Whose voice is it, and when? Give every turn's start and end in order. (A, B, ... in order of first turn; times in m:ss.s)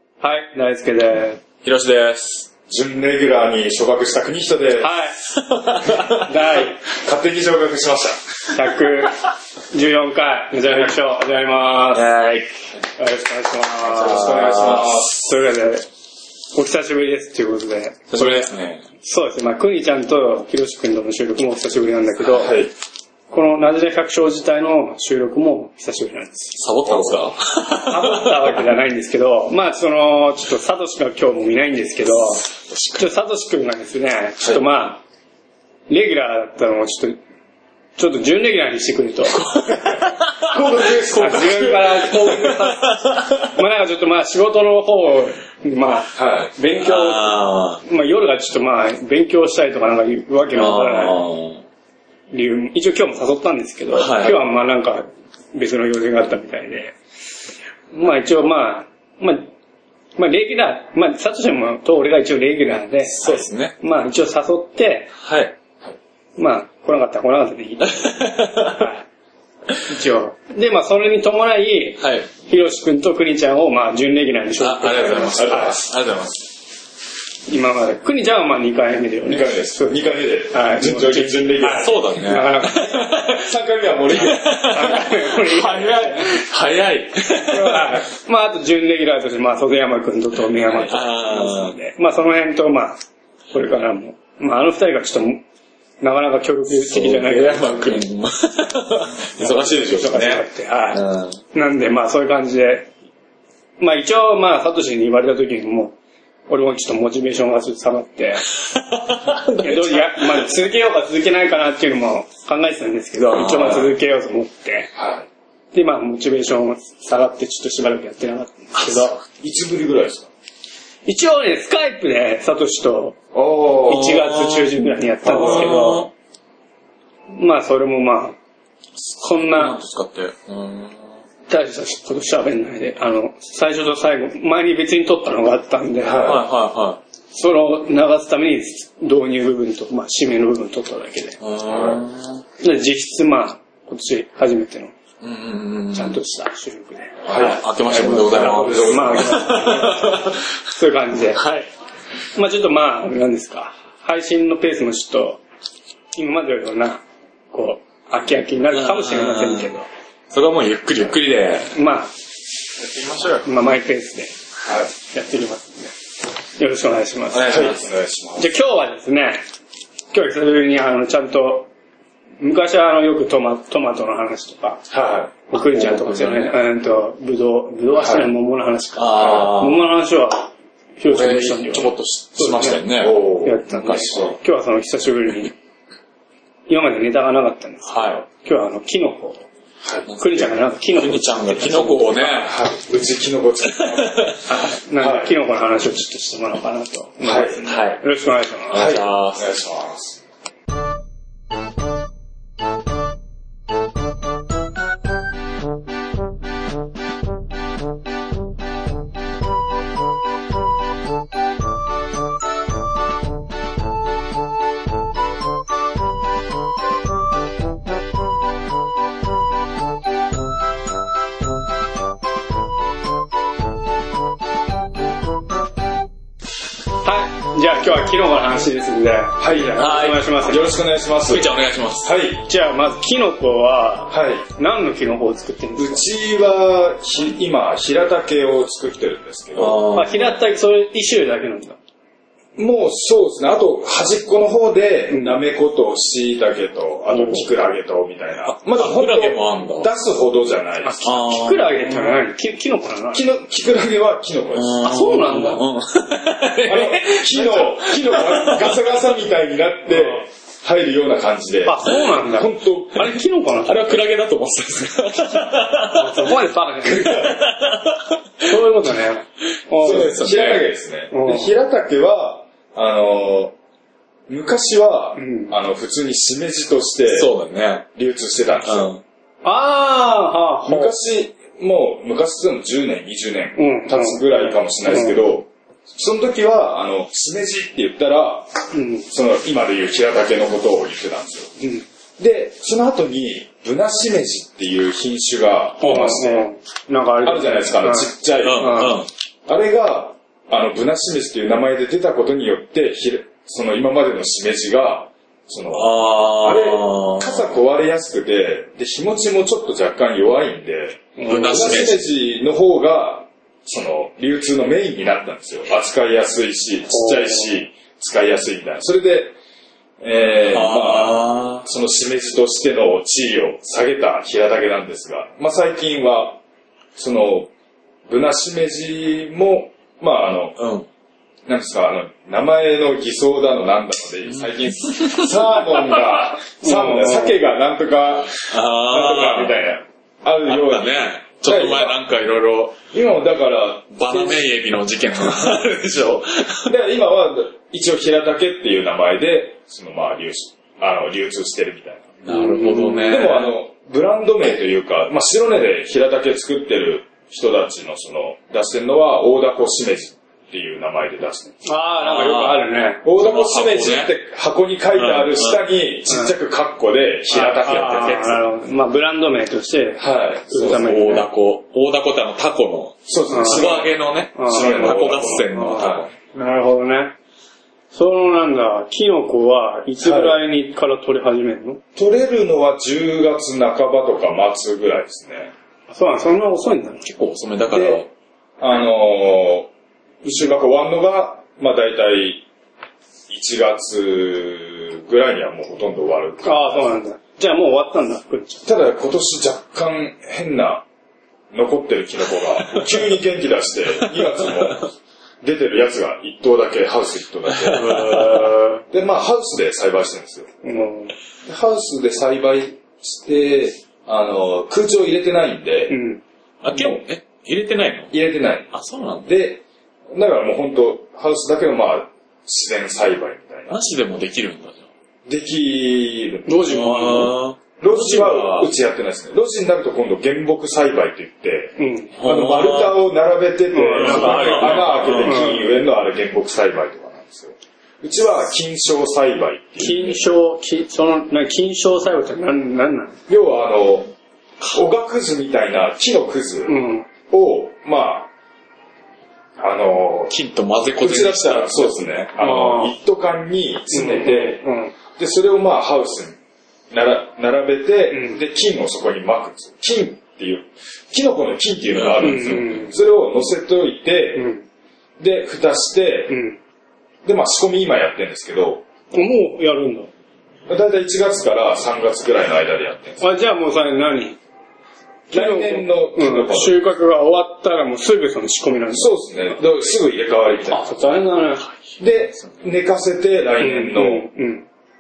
0:00.2-0:01.4 A
0:01.6-0:02.5 B
0:02.7-0:04.9 C
0:04.8-0:05.2 A
0:05.3-0:06.4 B
0:06.2-0:06.8 A
0:06.8-0:08.2 C
0:08.5-0:12.1 A
0:11.9-0:12.5 B
0:13.0-0:14.4 A
0:13.8-0:15.1 B
0:13.9-0:15.3 C
0:15.1-0:15.8 A
0:16.5-0:22.6 A
0:18.1-0:18.8 B
0:22.3-0:22.7 C
0:23.3-0:26.5 A
0:26.5-0:28.6 B
0:26.8-0:27.3 C
0:27.8-0:35.0 A
0:32.2-0:33.1 B
0:35.9-0:37.2 A
0:38.0-0:39.5 A
0:39.3-0:43.6 B
0:40.5-0:41.8 C
0:41.1-0:51.2 A
0:46.1-0:46.5 C
0:46.7-0:47.8 B
0:50.5-0:51.6 B
0:52.3-0:57.0 A
0:53.9-0:54.4 B
0:57.9-0:59.5 A
1:00.2-1:05.1 A
1:03.0-1:03.7 B
1:05.2-1:05.5 B
1:06.4-1:09.0 A
1:07.8-1:08.9 B
1:09.9-1:15.8 A
1:12.0-1:12.3 B
1:14.6-1:16.5 B
1:15.3-1:15.8 C
1:17.5-1:22.8 A
1:19.2-1:22.0 C
1:21.6-1:23.5 B
1:22.7-1:24.8 C
1:24.1-1:28.0 B
1:24.7-1:26.4 A
1:27.5-1:33.0 A
1:30.5-1:31.8 B
1:33.5-1:35.4 A
1:36.0-1:38.0 A
1:36.7-1:41.4 B
1:39.4-1:41.0 A
1:41.5-1:42.9 A
1:43.8-1:46.0 A
1:46.5-1:48.5 A
1:48.6-1:50.5 B
1:49.6-1:54.9 A
1:53.3-1:53.9 B
1:54.9-1:55.2 C
1:55.7-1:59.2 A
1:58.8-1:59.1 B
1:59.3-2:00.3 C
2:01.0-2:03.2 A
2:03.3-2:04.1 C
2:03.7-2:06.1 B
2:03.8-2:06.1 A
2:05.4-2:05.8 C
2:07.3-2:08.4 A
2:09.0-2:11.2 B
2:09.2-2:09.8 A
2:11.5-2:16.4 A
2:16.0-2:16.4 C
2:16.1-2:17.0 B
2:17.3-2:21.4 A
2:21.4-2:22.4 B
2:21.7-2:22.0 C
2:22.6-2:24.9 A
2:25.2-2:26.2 B
2:25.9-2:31.5 A
2:27.2-2:30.5 B
2:27.2-2:29.5 C
2:31.2-2:31.7 B
2:32.3-2:35.4 A
2:36.1-2:39.9 A
2:38.7-2:39.7 B
2:40.3-2:41.8 B
2:41.7-2:42.1 A
2:42.8-2:43.5 B
2:43.4-2:44.3 A
2:44.9-2:45.9 A
2:46.6-2:47.6 A
2:47.3-2:47.8 B
2:47.4-2:48.6 C
2:48.4-2:49.4 A
2:50.1-2:51.7 A
2:52.4-2:54.8 A
2:54.9-2:55.3 C
2:55.5-3:02.9 A
2:55.6-2:56.5 B
2:58.0-2:58.3 C
2:59.0-2:59.9 B
3:01.1-3:04.3 B
3:03.0-3:04.4 C
3:03.4-3:05.5 A
3:06.7-3:09.5 A
3:07.8-3:08.2 B
3:10.1-3:12.6 B
3:10.2-3:12.2 A
3:11.8-3:14.4 C
3:13.8-3:14.7 B
3:14.8-3:18.9 A
3:15.0-3:15.3 C
3:17.2-3:17.7 C
3:17.6-3:18.0 B
3:18.7-3:19.5 B
3:18.7-3:20.2 C
3:47.0-3:50.7 A
3:49.4-3:52.4 C
3:49.8-3:50.3 B
3:51.3-3:52.2 B
3:52.4-3:56.0 A
3:54.1-3:54.4 C
3:55.8-3:59.9 C
3:59.5-4:00.3 B
3:59.9-4:01.8 A
4:02.6-4:11.1 C
4:05.1-4:05.4 A
4:07.1-4:07.5 A
4:08.4-4:09.9 B
4:10.8-4:13.2 A
4:11.0-4:12.0 B
4:13.1-4:15.3 C
4:14.5-4:18.8 B
4:14.8-4:15.6 A
4:16.6-4:23.1 C
4:19.9-4:20.2 A
4:21.6-4:24.0 A
4:23.6-4:28.9 B
4:25.8-4:27.3 A
4:26.8-4:27.4 C
4:28.4-4:30.1 A
4:29.7-4:30.6 B
4:29.8-4:33.5 C
4:31.1-4:31.5 A
4:34.3-4:37.3 C
4:35.2-4:35.5 A
4:37.1-4:37.9 B
4:37.9-4:38.9 C
4:38.6-4:39.0 B
4:39.4-4:40.9 A
4:40.6-4:48.5 C
4:43.6-4:45.2 A
4:48.7-4:49.0 A
4:49.1-4:51.6 C
4:51.6-4:51.8 A
4:52.2-4:56.4 C
4:55.8-4:59.0 A
4:57.2-5:19.4 C
4:58.4-4:59.1 B
5:05.7-5:07.6 B
5:11.2-5:11.8 A
5:11.3-5:12.0 B
5:16.9-5:17.5 A
5:20.0-5:26.4 C
5:20.5-5:21.6 B
5:27.0-5:27.5 C
5:28.1-5:30.6 C
5:30.6-5:30.9 B
5:31.4-5:42.0 C
5:34.3-5:36.0 B
5:36.6-5:37.4 A
5:38.5-5:39.6 B
5:40.4-5:42.8 B
5:42.9-5:44.5 C
5:43.9-5:46.7 B
5:46.6-5:52.1 C
5:52.2-5:53.5 B
5:52.3-5:53.2 A
5:53.0-6:01.6 C
6:01.6-6:03.0 A
6:02.0-6:04.1 B
6:03.0-6:08.4 C
6:04.9-6:05.6 B
6:07.3-6:11.3 A
6:07.6-6:08.4 B
6:10.0-6:10.9 C
6:10.6-6:16.1 B
6:13.1-6:16.1 C
6:13.3-6:13.7 A
6:14.3-6:17.2 A
6:17.9-6:21.8 A
6:20.0-6:20.4 C
6:22.0-6:25.5 C
6:25.9-6:27.0 A
6:27.0-6:28.1 B
6:27.7-6:28.0 C
6:28.6-6:29.7 C
6:30.2-6:32.4 C
6:30.2-6:30.6 A
6:33.3-6:37.0 C
6:36.4-6:38.6 A
6:38.6-6:40.8 C
6:41.5-6:44.9 C
6:44.1-6:44.5 B
6:45.4-6:50.5 C
6:47.5-6:48.2 B
6:47.7-6:48.8 A
6:50.6-6:51.1 A
6:51.4-6:56.0 C
6:55.9-6:56.2 A
6:56.6-6:58.1 B
6:56.7-6:57.0 C
6:58.1-6:58.7 C
6:58.7-6:59.3 B
6:59.2-7:03.8 C
7:03.7-7:04.8 B
7:05.2-7:06.6 C
7:06.5-7:07.3 A
7:06.6-7:08.7 B
7:07.8-7:20.2 C
7:11.8-7:12.1 A
7:12.2-7:13.0 B
7:13.7-7:15.7 A
7:14.0-7:15.5 B
7:19.8-7:23.2 A
7:23.3-7:24.1 C
7:24.7-7:28.3 C
7:26.6-7:27.1 A
7:29.6-7:30.3 C
7:30.3-7:32.1 B
7:31.0-7:34.6 C
7:32.4-7:32.9 A
7:33.9-7:34.9 A
7:35.2-7:36.4 C
7:36.9-7:44.5 C
7:38.1-7:38.4 A
7:41.9-7:42.9 B
7:42.2-7:42.9 A
7:44.3-7:44.6 A
7:45.2-7:46.4 C
7:46.3-7:46.6 A
7:47.2-7:48.8 C
7:49.1-7:50.1 A
7:50.7-7:53.2 C
7:53.2-7:54.4 A
7:55.3-7:56.9 C
7:55.3-7:59.1 A
7:58.9-8:01.2 C
8:00.7-8:01.6 A
8:02.0-8:04.2 C
8:03.6-8:04.6 A